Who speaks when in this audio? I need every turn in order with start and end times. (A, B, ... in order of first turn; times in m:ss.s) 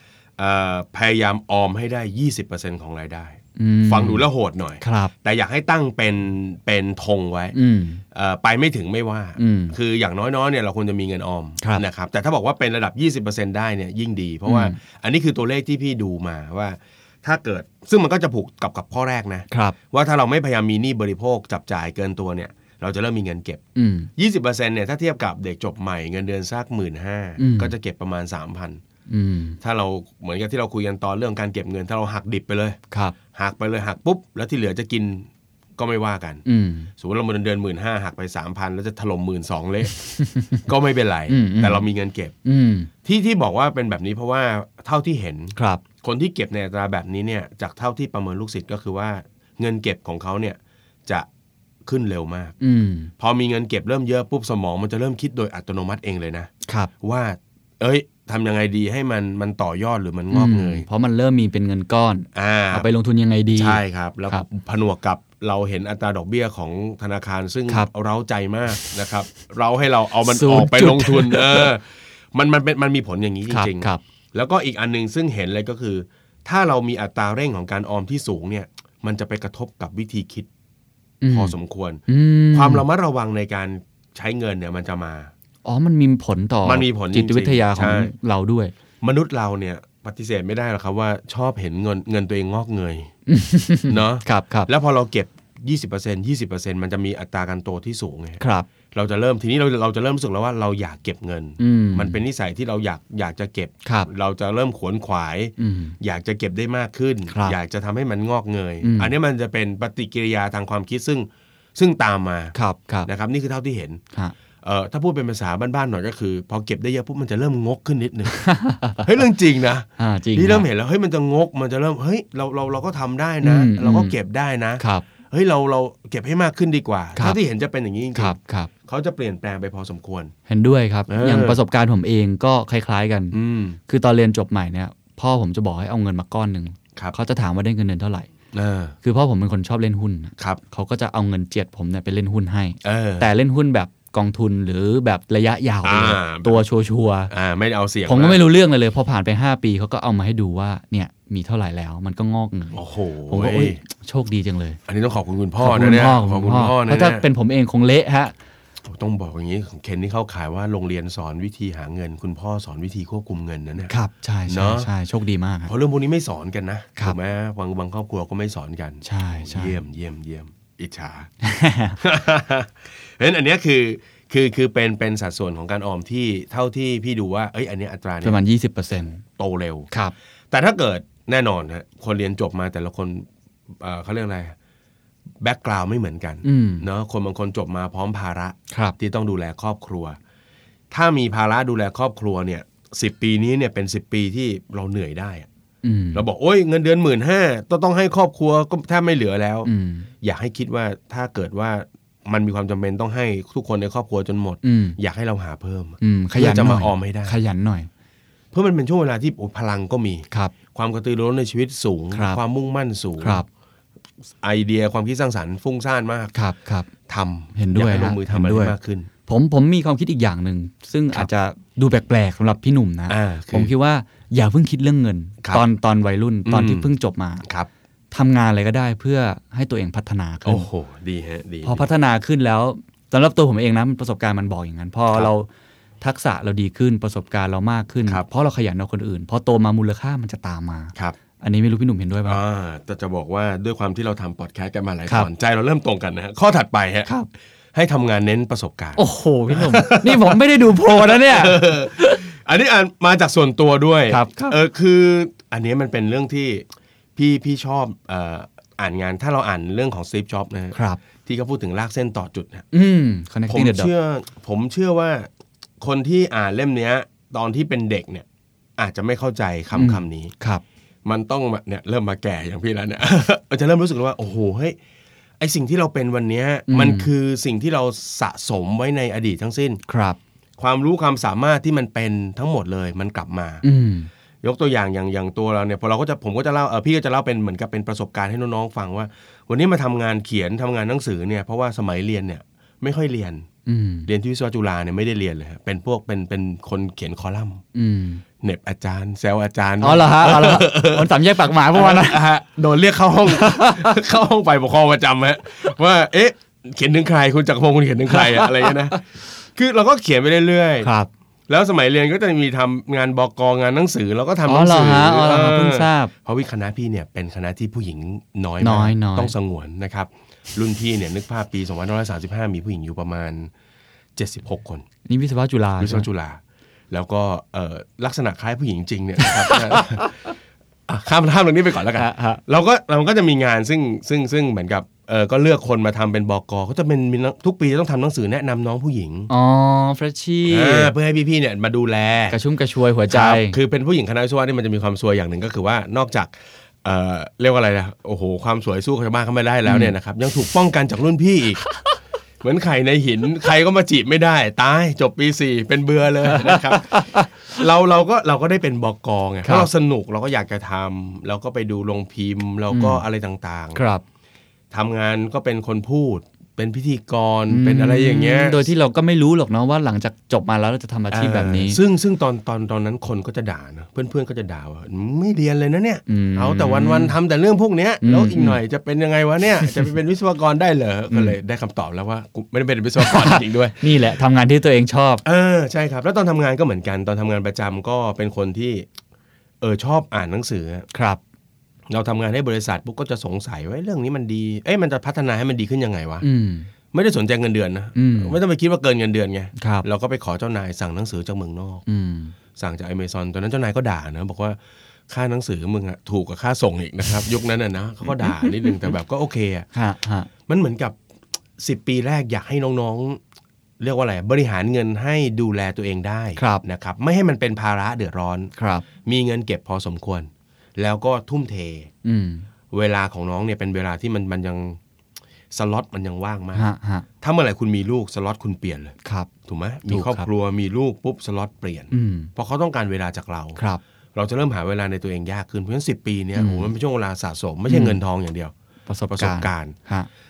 0:00.4-0:07.6 A
0:03.6-0:04.3 B
0:04.8-0:05.1 B
0:07.5-0:08.0 B
0:08.1-0:23.6 A
0:09.4-0:09.8 B
0:14.5-0:14.8 B
0:19.5-0:19.8 B
0:23.8-0:24.1 B
0:24.2-0:28.8 A
0:27.4-0:27.7 B
0:29.1-0:29.6 B
0:29.6-0:32.8 A
0:33.3-0:36.4 A
0:36.4-0:36.9 B
0:37.0-0:40.0 A
0:40.0-0:40.6 B
0:40.7-0:42.3 A
0:41.3-0:41.9 B
0:42.4-0:42.9 B
0:43.0-0:51.3 A
0:45.6-0:45.8 B
0:51.8-0:52.6 A
0:52.6-0:53.1 B
0:53.2-1:00.9 A
0:56.7-0:56.9 B
1:00.3-1:04.5 B
1:02.3-1:02.9 A
1:03.6-1:20.5 A
1:10.3-1:11.7 B
1:13.5-1:14.0 B
1:21.2-1:21.6 B
1:21.3-1:22.0 A
1:22.1-1:22.8 B
1:22.5-1:25.3 A
1:25.6-1:28.7 B
1:26.6-1:28.1 A
1:29.0-1:33.1 A
1:33.3-1:34.7 B
1:33.9-1:52.6 A
1:38.4-1:38.7 B
1:41.6-1:42.2 B
1:43.8-1:44.1 B
1:45.6-1:46.0 B
1:47.3-1:47.6 B
1:48.8-1:49.1 B
1:52.5-1:53.1 B
1:53.1-1:54.0 A
1:54.6-1:58.4 A
1:58.3-1:59.1 B
1:59.0-2:10.3 A
2:00.0-2:00.7 B
2:03.4-2:04.2 B
2:04.8-2:05.0 B
2:08.2-2:08.7 B
2:10.5-2:13.4 B
2:11.1-2:11.6 A
2:13.3-2:13.8 A
2:13.9-2:18.3 B
2:18.5-2:19.0 A
2:19.0-2:27.3 B
2:22.8-2:23.3 A
2:25.8-2:26.6 A
2:27.3-2:28.4 A
2:28.1-2:34.8 B
2:32.7-2:33.8 A
2:34.9-2:37.3 A
2:35.6-2:38.3 B
2:38.9-2:43.9 A
2:43.8-2:45.7 B
2:44.5-2:44.9 A
2:45.7-2:51.3 A
2:49.0-2:49.8 B
2:51.4-2:52.0 B
2:52.0-2:58.4 A
2:58.2-2:59.2 B
2:59.4-2:59.9 A
3:00.5-3:03.3 A
3:03.8-3:04.6 A
3:05.4-3:10.2 A
3:06.4-3:06.9 B
3:08.7-3:09.0 B
3:10.9-3:15.5 A
3:15.8-3:16.3 B
3:16.1-3:19.7 A
3:19.6-3:20.1 B
3:20.2-3:27.4 A
3:24.6-3:25.0 B
3:26.0-3:27.9 B
3:28.5-3:33.4 A
3:32.1-3:32.4 B
3:33.2-3:33.5 B
3:34.4-3:36.3 A
3:36.3-3:36.9 B
3:37.1-3:39.1 A
3:37.6-3:38.8 B
3:39.3-3:47.5 B
3:43.1-3:43.7 A
3:46.5-3:46.9 A
3:48.1-3:50.7 B
3:50.4-3:51.9 A
3:51.6-3:55.5 B
3:56.0-4:02.4 B
4:02.3-4:07.1 A
4:07.7-4:22.7 A
4:09.0-4:12.3 B
4:14.1-4:14.6 B
4:20.7-4:21.0 B
4:22.7-4:23.9 B
4:23.5-4:25.3 A
4:25.8-4:28.3 A
4:28.8-4:30.3 A
4:29.7-4:30.6 B
4:31.0-4:34.8 A
4:35.4-4:39.8 A
4:36.7-4:37.1 B
4:39.9-4:40.2 B
4:40.6-4:43.6 A
4:43.6-4:44.1 B
4:44.4-4:53.5 A
4:53.7-4:54.1 B
4:54.1-4:57.6 A
4:57.7-4:58.2 B
4:58.4-5:09.0 A
4:59.8-5:02.2 B
5:03.3-5:04.0 B
5:08.1-5:09.0 B
5:09.5-5:10.9 A
5:10.8-5:11.1 B
5:11.5-5:23.5 A
5:14.5-5:16.1 B
5:18.6-5:19.3 B
5:24.2-5:24.9 A
5:25.1-5:26.1 B
5:25.8-5:30.2 A
5:29.2-5:30.1 B
5:30.9-5:39.3 A
5:32.0-5:32.4 B
5:39.3-5:40.9 B
5:40.5-5:42.4 A
5:42.3-5:43.6 B
5:43.1-5:51.6 A
5:49.7-5:49.9 B
5:52.4-6:03.8 A
5:56.3-5:57.4 B
5:59.4-5:59.7 B
6:02.7-6:03.0 B
6:03.8-6:04.0 B
6:04.7-6:08.7 A
6:07.5-6:11.8 B
6:11.1-6:23.9 A
6:16.1-6:17.2 B
6:18.0-6:18.6 B
6:21.1-6:21.4 B
6:23.0-6:25.2 B
6:25.2-6:28.9 A
6:29.6-6:30.9 A
6:30.9-6:31.2 B
6:31.9-6:36.2 A
6:36.2-6:36.7 B
6:36.9-6:41.8 A
6:38.0-6:38.4 B
6:39.6-6:39.8 B
6:41.9-6:42.4 B
6:42.6-6:49.7 A
6:48.2-6:48.5 B
6:49.7-6:50.3 B
6:50.5-6:51.0 A
6:51.6-6:53.2 A
6:53.8-6:58.5 A
6:56.4-6:56.6 B
6:58.6-6:58.8 B
6:59.0-7:01.9 A
7:02.0-7:02.5 B
7:02.7-7:04.8 A
7:05.5-7:06.6 A
7:06.6-7:07.1 B
7:07.2-7:09.0 A
7:09.0-7:09.3 B
7:09.5-7:13.6 A
7:09.9-7:10.3 B
7:11.9-7:12.3 B
7:13.6-7:13.8 B
7:14.2-7:18.5 A
7:16.4-7:16.7 B
7:17.7-7:18.0 B
7:18.9-7:20.1 B
7:19.1-7:19.8 A